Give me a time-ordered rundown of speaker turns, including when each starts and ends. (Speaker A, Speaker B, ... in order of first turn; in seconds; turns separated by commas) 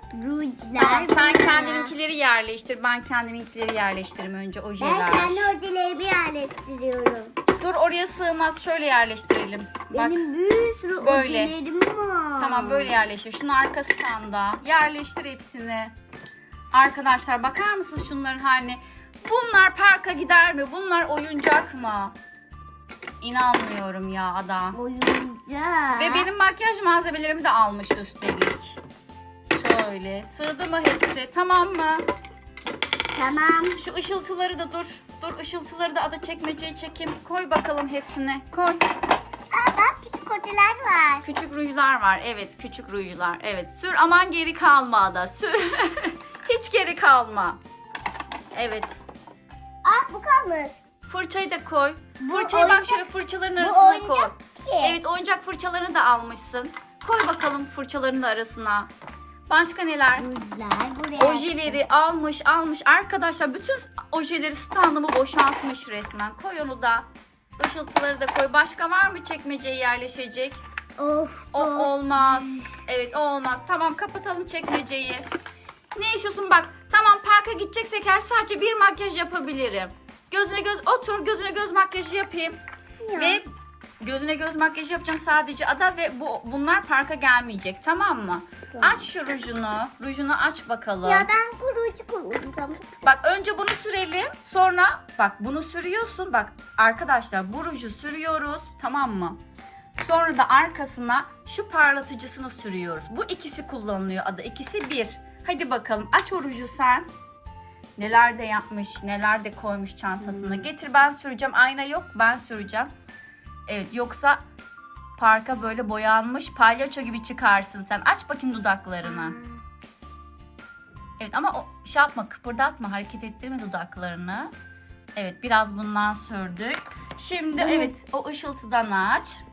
Speaker A: 0.1-1.9, Speaker B: 0.8-5.5, Speaker A: 4.8-7.3, Speaker B: 7.6-10.2, Speaker A: 9.9-12.9, Speaker B: 11.0-11.5, Speaker B: 12.4-15.9, Speaker B: 16.7-22.1, Speaker B: 23.2-24.8, Speaker A: 24.7-26.3, Speaker B: 26.0-28.8, Speaker B: 29.5-32.0, Speaker A: 33.1-33.8, Speaker B: 33.8-38.8, Speaker A: 39.5-41.2, Speaker B: 41.2-47.6, Speaker B: 48.5-49.0, Speaker A: 49.8-50.8, Speaker B: 51.1-58.9, Speaker A: 52.2-53.0, Speaker A: 53.6-55.0, Speaker B: 59.5-60.3, Speaker A: 60.2-61.8, Speaker B: 61.2-67.1, Speaker B: 67.6-70.6, Speaker A: 71.0-72.7, Speaker B: 71.5-75.2, Speaker B: 75.9-82.6, Speaker A: 83.0-83.4, Speaker B: 83.1-83.5, Speaker B: 84.0-91.3, Speaker A: 88.7-89.1, Speaker A: 91.0-93.1, Speaker B: 93.0-99.4, Speaker B: 100.0-107.1, Speaker B: 108.0-112.9, Speaker A: 110.2-110.7, Speaker B: 113.7-114.4, Speaker B: 115.2-119.4, Speaker A: 119.0-119.6, Speaker B: 121.2-124.5, Speaker B: 125.2-129.4, Speaker A: 127.5-127.9